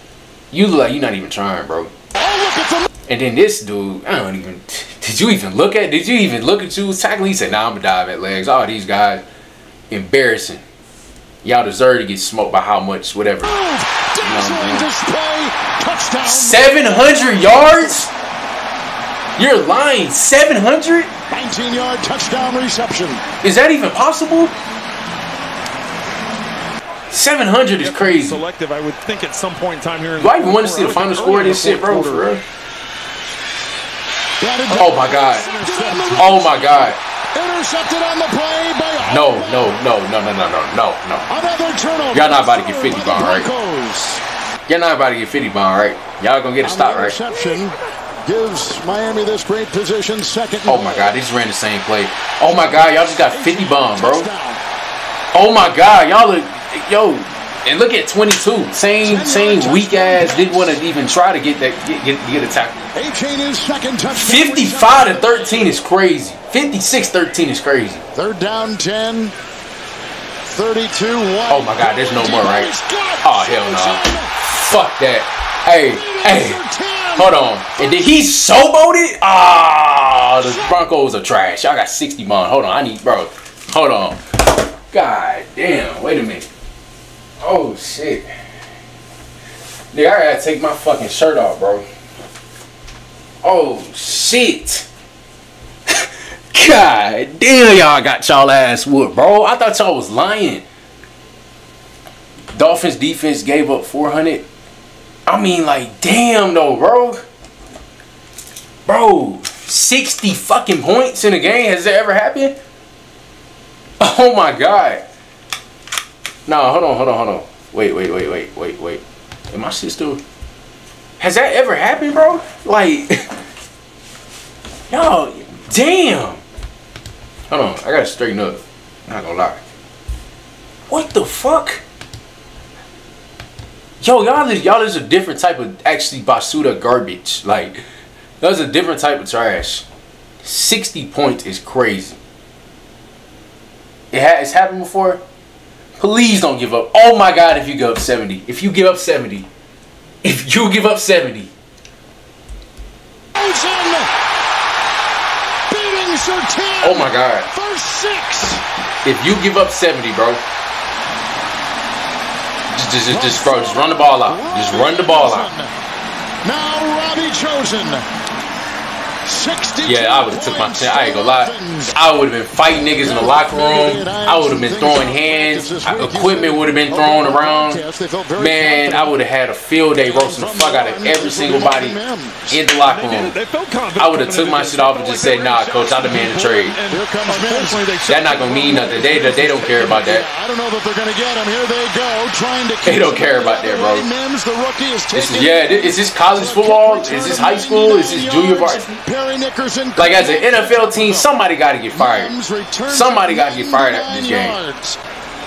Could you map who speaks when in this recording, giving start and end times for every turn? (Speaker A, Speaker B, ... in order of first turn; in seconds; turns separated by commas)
Speaker A: 0.5-1.9, Speaker B: 2.2-2.9, Speaker A: 3.1-9.2, Speaker A: 9.9-10.6, Speaker A: 11.4-13.6, Speaker B: 13.4-16.7, Speaker A: 14.2-14.9, Speaker A: 16.2-18.1, Speaker B: 17.3-17.9, Speaker A: 19.4-21.1, Speaker B: 21.3-23.2, Speaker A: 23.4-24.5, Speaker A: 27.1-28.4, Speaker C: 27.8-32.4, Speaker A: 30.2-32.4, Speaker B: 34.4-39.7, Speaker C: 34.7-36.4, Speaker A: 34.7-35.5, Speaker A: 36.1-37.0, Speaker A: 39.0-41.3, Speaker B: 41.3-44.2, Speaker A: 42.1-43.5, Speaker A: 44.7-47.2, Speaker B: 46.6-51.1, Speaker A: 50.6-54.3, Speaker B: 53.3-54.6, Speaker A: 55.3-62.8, Speaker B: 59.0-60.8, Speaker B: 62.9-65.7, Speaker A: 64.1-68.0, Speaker B: 68.1-69.3, Speaker B: 70.5-74.3, Speaker A: 71.5-72.7, Speaker A: 73.2-76.6, Speaker B: 75.9-78.1, Speaker A: 77.2-84.2, Speaker B: 80.4-80.8, Speaker A: 84.9-86.5, Speaker A: 87.4-88.3, Speaker A: 89.9-91.8, Speaker A: 93.4-94.9, Speaker A: 95.9-100.6, Speaker A: 102.5-104.4, Speaker A: 105.3-107.2, Speaker A: 108.8-112.6, Speaker A: 114.0-115.0, Speaker A: 116.5-120.2, Speaker A: 121.2-123.4, Speaker A: 124.9-126.4, Speaker A: 127.5-129.6, Speaker A: 130.9-131.8, Speaker A: 134.0-137.8, Speaker A: 138.4-139.8, Speaker A: 140.4-142.2, Speaker A: 144.1-145.2, Speaker A: 146.0-149.5, Speaker A: 150.2-151.5, Speaker B: 153.3-154.1, Speaker B: 155.7-158.6, Speaker A: 156.8-157.5, Speaker A: 159.0-160.4, Speaker A: 162.7-165.5, Speaker B: 163.1-165.7, Speaker B: 166.4-168.0, Speaker B: 169.2-172.0, Speaker A: 169.8-177.8, Speaker B: 173.0-179.1, Speaker A: 178.3-182.0, Speaker B: 179.9-182.6, Speaker A: 182.5-183.3, Speaker C: 182.8-189.6, Speaker A: 183.9-186.8, Speaker B: 186.9-187.9, Speaker A: 188.1-190.2, Speaker B: 188.5-201.3, Speaker A: 192.8-194.1, Speaker A: 195.1-199.0, Speaker A: 200.0-202.3, Speaker B: 201.9-205.0, Speaker A: 202.9-204.6